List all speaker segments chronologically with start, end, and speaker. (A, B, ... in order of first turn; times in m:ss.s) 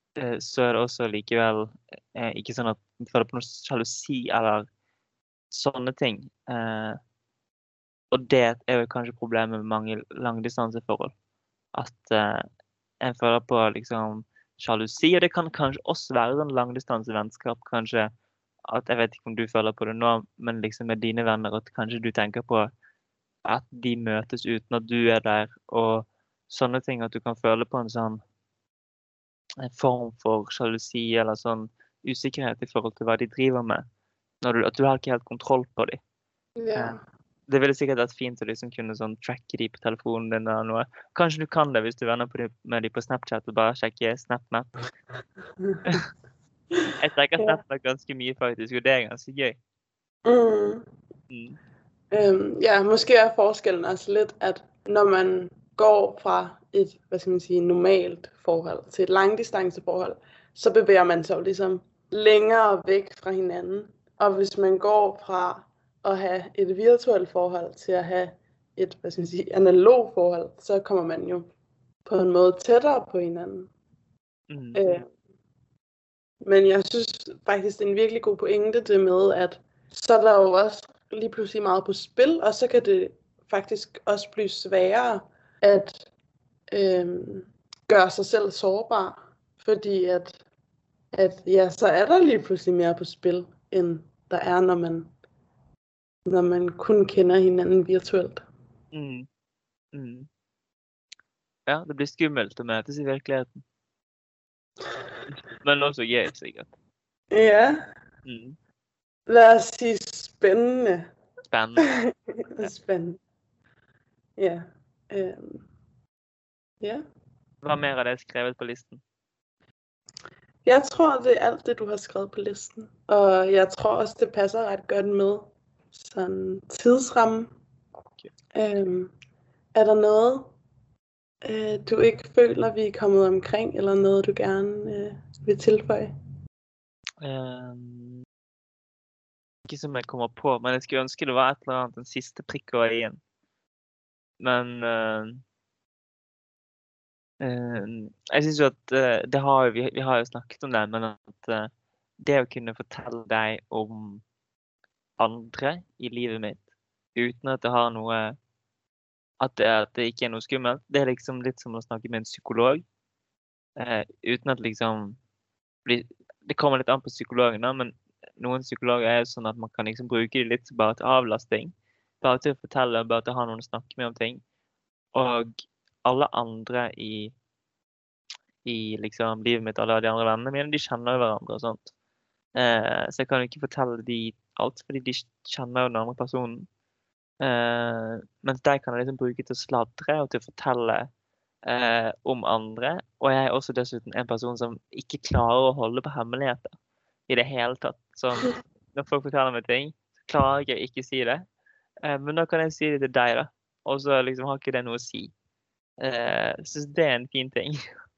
0:00.2-0:04.7 A
0:05.5-0:07.0 A
0:08.1-0:11.1 A
0:11.7-0:12.4 A
0:13.0-0:18.1 A
0:18.7-0:22.7 A
0:23.5-0:28.2 A
0:29.6-0:33.8 A
0:34.4-0:36.0 A
0:36.6-0:37.0 B
0:37.5-0:44.7 A
0:45.6-0:46.0 B
0:47.0-0:49.6 A
0:50.2-0:50.8 B
0:51.3-0:51.6 A
0:52.1-1:11.5 B
1:12.1-1:13.7 B
1:14.5-1:14.8 A
1:14.7-1:15.1 B
1:16.4-1:26.1 B
1:26.7-1:30.4 B
1:31.1-1:35.1 B
1:36.3-1:38.4 B
1:38.9-1:39.3 A
1:39.9-1:40.3 A
1:41.7-1:43.6 A
1:45.3-1:46.7 A
1:47.3-1:47.9 B
1:48.2-1:48.6 A
1:49.3-1:51.1 B
1:51.5-1:51.8 A
1:51.8-1:53.2 B
1:54.4-1:55.7 B
1:57.6-1:59.0 A
2:00.6-2:07.5 B
2:08.5-2:09.1 B
2:09.7-2:10.5 B
2:11.4-2:16.1 B
2:17.2-2:18.2 A
2:19.7-2:23.2 A
2:24.4-2:25.4 A
2:27.4-2:31.7 A
2:32.2-2:34.2 A
2:35.2-2:36.6 A
2:37.2-2:38.4 A
2:39.4-2:42.8 A
2:43.8-2:45.2 A
2:45.9-2:54.4 A
2:55.1-2:55.5 A
2:56.0-2:57.3 A
2:58.6-3:01.9 A
3:02.6-3:06.7 A
3:07.4-3:11.1 A
3:11.7-3:16.8 A
3:17.3-3:21.4 A
3:22.0-3:25.3 A
3:26.0-3:27.8 A